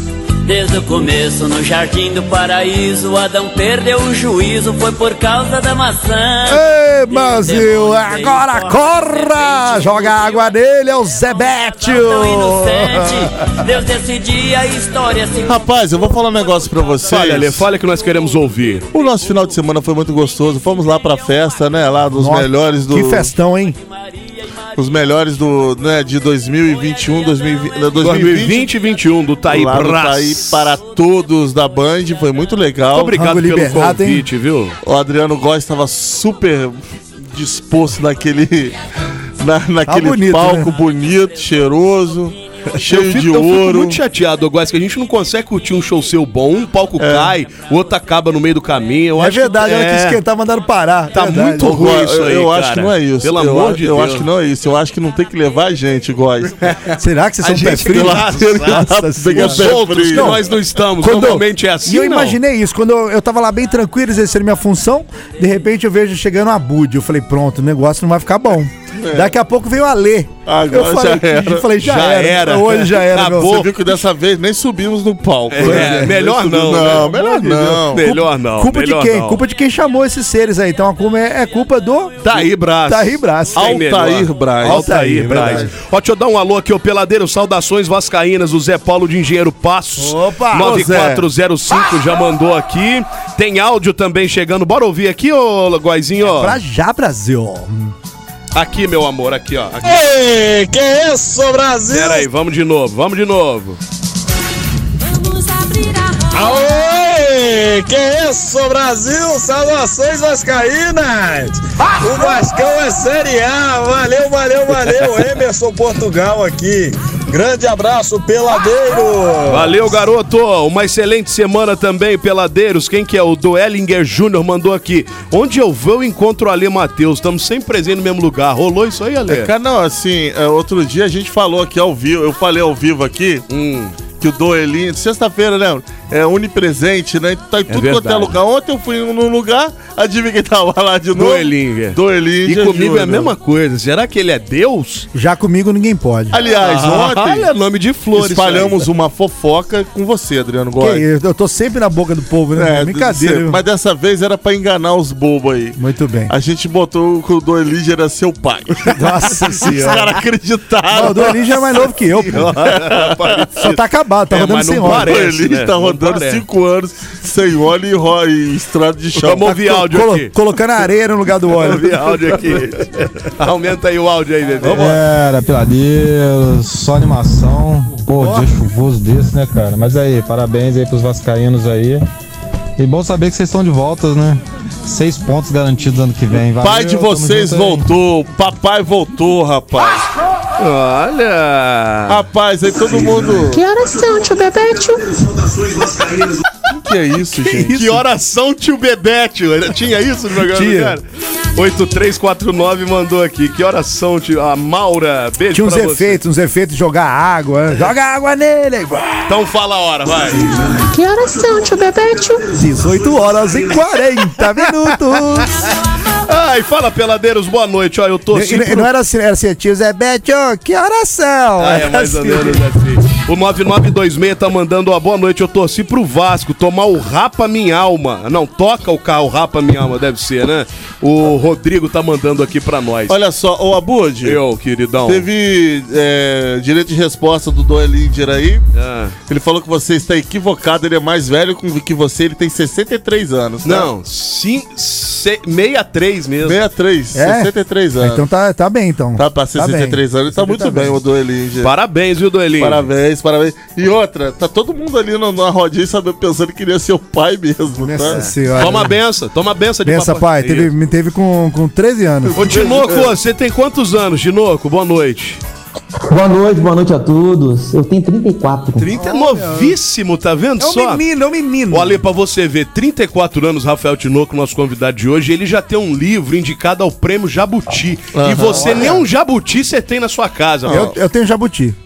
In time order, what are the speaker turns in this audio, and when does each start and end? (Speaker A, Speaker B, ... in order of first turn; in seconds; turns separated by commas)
Speaker A: 0.4-10.3, Speaker B: 6.5-13.5, Speaker A: 11.9-15.5, Speaker C: 15.4-17.7, Speaker D: 17.1-18.9, Speaker C: 18.9-23.3, Speaker B: 22.2-23.8, Speaker C: 24.8-28.7, Speaker D: 28.0-30.7, Speaker C: 29.5-33.2, Speaker D: 32.9-34.7, Speaker B: 33.1-34.3, Speaker C: 34.8-38.8, Speaker C: 39.4-44.0, Speaker B: 39.9-40.7, Speaker D: 42.8-50.2, Speaker C: 47.0-47.3, Speaker B: 49.2-51.8, Speaker D: 51.1-54.3, Speaker C: 51.6-56.6, Speaker B: 57.0-73.6, Speaker D: 57.4-62.4, Speaker C: 57.7-60.4, Speaker C: 69.0-69.3, Speaker C: 70.5-71.7, Speaker D: 71.8-74.0, Speaker C: 73.4-78.0, Speaker D: 75.5-77.2, Speaker B: 75.6-76.2, Speaker B: 76.8-83.8, Speaker D: 77.9-79.4, Speaker D: 82.2-96.6, Speaker C: 83.6-85.7, Speaker B: 84.6-85.7, Speaker B: 90.0-90.8, Speaker C: 90.6-91.3, Speaker B: 96.3-97.9, Speaker D: 98.5-100.0, Speaker E: 99.8-102.3, Speaker D: 101.9-103.8, Speaker E: 106.3-119.8, Speaker D: 119.5-129.5, Speaker C: 129.3-133.4, Speaker D: 133.5-133.9, Speaker C: 134.2-143.3, Speaker D: 137.7-138.4, Speaker D: 141.2-145.1, Speaker B: 145.1-146.4, Speaker C: 146.3-147.5, Speaker D: 146.4-148.9, Speaker C: 148.2-151.0, Speaker B: 150.8-153.6, Speaker C: 152.6-161.9, Speaker B: 155.8-156.3, Speaker B: 158.9-160.2, Speaker B: 160.9-162.8, Speaker D: 162.0-163.8, Speaker C: 162.6-163.4, Speaker B: 163.6-165.2, Speaker D: 164.3-166.4, Speaker C: 164.8-169.5, Speaker D: 169.2-170.3, Speaker B: 169.4-172.4, Speaker D: 171.6-175.0, Speaker C: 172.4-172.7, Speaker B: 174.6-175.2, Speaker F: 174.8-182.0, Speaker B: 178.2-178.5, Speaker F: 182.8-187.9, Speaker C: 186.5-190.0, Speaker D: 190.6-192.2, Speaker C: 192.1-193.7, Speaker G: 193.6-195.1, Speaker C: 196.7-198.0, Speaker D: 197.4-201.0, Speaker B: 200.5-201.0, Speaker D: 201.6-206.2, Speaker B: 205.5-209.4, Speaker D: 209.3-210.6, Speaker G: 211.0-212.4, Speaker B: 212.5-215.5, Speaker D: 214.6-215.4, Speaker D: 216.3-218.9, Speaker B: 218.3-222.6, Speaker D: 221.6-233.2, Speaker C: 233.1-234.4, Speaker D: 234.2-235.3, Speaker C: 235.1-238.7, Speaker D: 238.7-239.2, Speaker C: 239.3-243.9, Speaker D: 243.6-246.6, Speaker C: 246.4-248.2, Speaker B: 247.2-251.0, Speaker C: 249.2-251.7, Speaker D: 251.6-252.9, Speaker C: 252.6-258.2, Speaker B: 257.8-259.0, Speaker D: 258.1-260.7, Speaker B: 259.9-262.4, Speaker C: 262.3-263.1, Speaker D: 262.4-265.4, Speaker H: 266.1-268.9, Speaker B: 268.8-269.8, Speaker D: 268.8-271.0, Speaker B: 270.6-272.0, Speaker D: 271.7-280.9, Speaker C: 278.1-279.0, Speaker B: 278.4-279.1, Speaker C: 280.6-281.0, Speaker B: 280.7-281.8